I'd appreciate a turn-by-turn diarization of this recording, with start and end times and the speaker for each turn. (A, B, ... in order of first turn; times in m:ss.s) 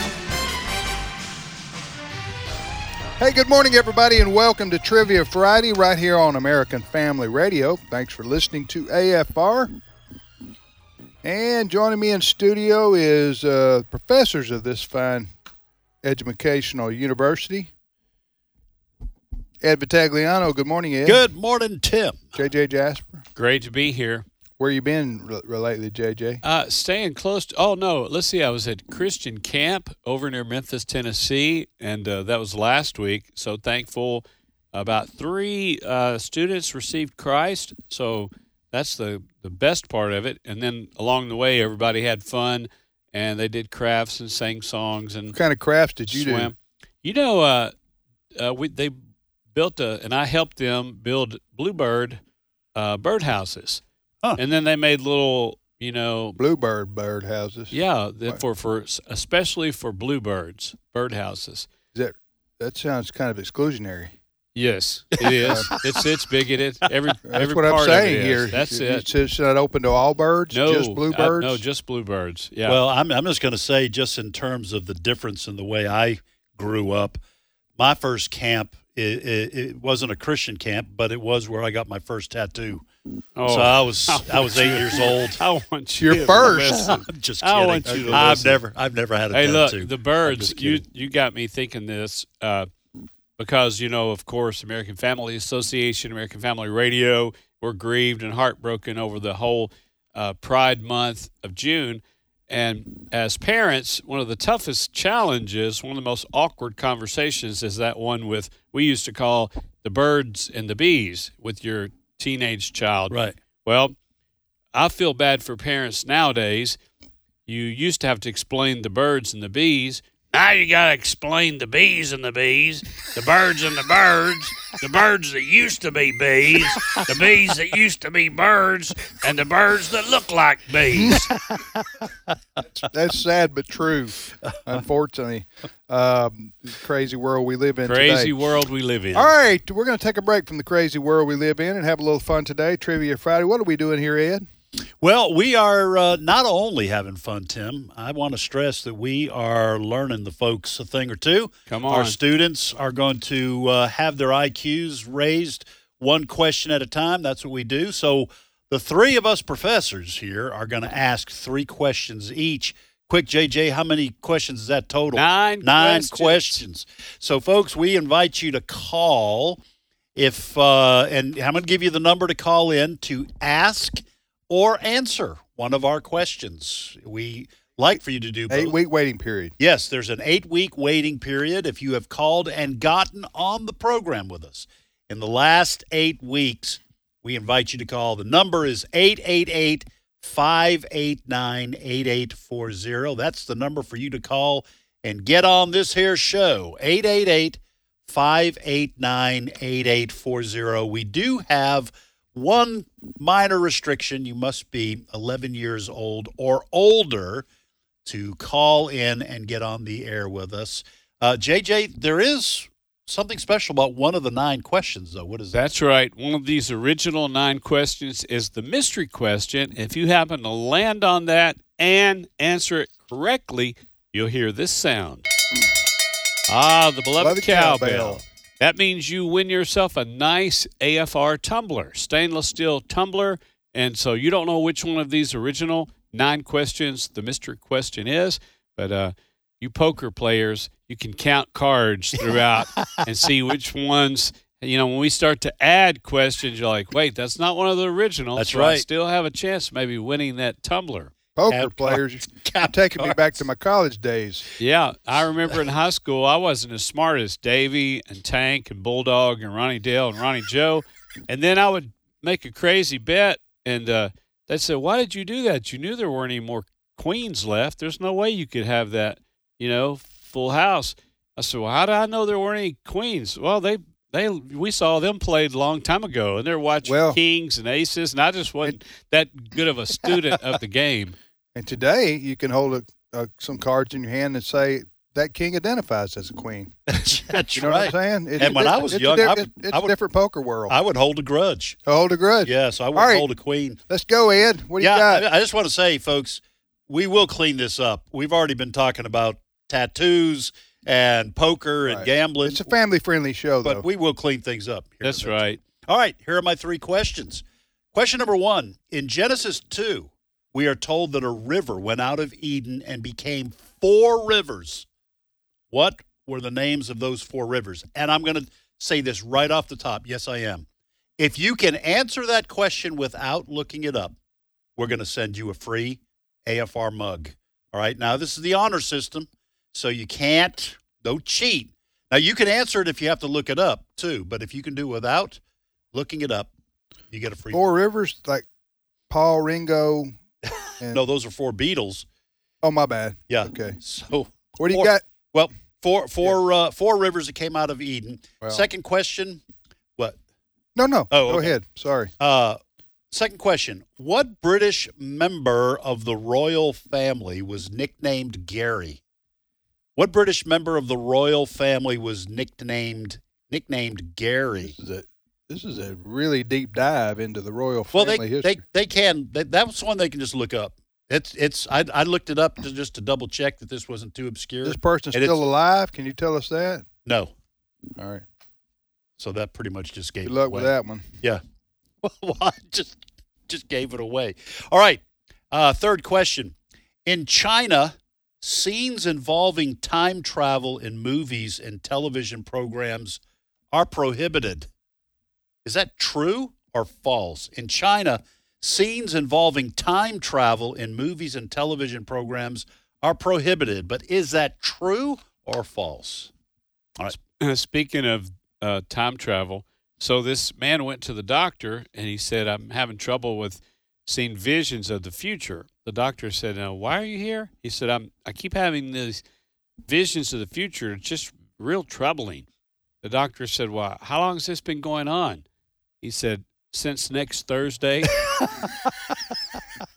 0:03.2-0:09.7 A
0:11.2-0:15.3 A
0:16.0-0:17.7 A
0:19.6-0:21.2 A
0:21.0-0:22.2 B
0:22.3-0:23.2 A
0:23.4-0:24.2 C
0:24.6-0:26.4 A
0:26.4-0:45.4 C
0:45.3-0:46.5 A
0:46.1-0:47.7 C
0:48.4-0:49.0 C
0:49.5-0:52.2 C
0:52.7-0:53.8 C
0:54.4-0:56.4 C
0:56.4-0:57.7 A
0:57.7-1:01.7 C
1:01.9-1:04.1 A
1:04.5-1:09.0 C
1:05.3-1:06.0 B
1:05.4-1:05.7 A
1:07.3-1:11.6 A
1:10.5-1:12.8 C
1:12.7-1:17.2 B
1:17.8-1:22.8 B
1:23.4-1:28.6 C
1:23.4-1:25.4 B
1:26.0-1:26.8 A
1:26.1-1:30.8 B
1:27.8-1:28.6 A
1:29.3-1:32.7 C
1:33.4-1:53.9 C
1:53.1-1:53.4 B
1:54.7-1:56.8 C
1:57.4-2:11.3 C
2:11.5-2:11.8 B
2:12.8-2:18.3 A
2:17.8-2:19.3 C
2:19.1-2:24.4 A
2:25.0-2:49.6 B
2:31.7-2:32.2 C
2:45.1-2:46.6 C
2:50.2-2:58.8 B
2:58.5-2:59.5 A
2:59.6-3:27.4 B
3:28.0-3:35.6 B
3:35.5-3:45.3 C
3:46.5-4:11.1 C
3:47.2-3:48.2 A
4:02.8-4:03.0 B
4:08.4-4:08.8 B
4:11.4-4:14.4 A
4:11.5-4:13.2 B
4:14.6-4:41.1 C
4:36.8-4:37.2 A
4:41.5-4:46.8 A
4:46.9-4:49.9 B
4:47.5-4:50.7 A
4:50.7-4:51.8 B
4:51.8-4:53.2 A
4:52.4-4:53.8 B
4:53.9-4:55.2 A
4:54.8-5:02.6 B
5:01.9-5:03.8 A
5:03.6-5:07.4 B
5:05.0-5:05.6 C
5:07.9-5:14.8 B
5:15.7-5:20.6 B
5:21.2-5:24.1 B
5:24.8-5:35.4 B
5:35.9-5:36.5 B
5:37.1-5:37.6 B
5:37.5-5:38.4 A
5:39.1-5:40.1 A
5:40.5-5:42.0 B
5:42.6-5:43.8 A
5:43.3-5:49.4 B
5:44.6-5:45.0 A
5:50.8-5:52.1 A
5:51.1-5:51.5 B
5:52.2-5:52.6 B
5:53.1-5:59.0 B
6:00.0-6:04.8 B
6:04.6-6:08.6 A
6:07.9-6:15.4 B
6:14.6-6:16.8 A
6:17.0-6:17.3 B
6:18.0-6:18.2 A
6:19.2-6:20.7 B
6:20.2-6:21.0 A
6:22.0-6:26.5 B
6:27.0-6:33.2 B
6:33.7-6:34.7 B
6:35.6-6:46.3 B
6:47.1-6:59.2 C
6:59.9-7:02.4 C
7:03.0-7:05.4 C
7:06.0-7:08.2 C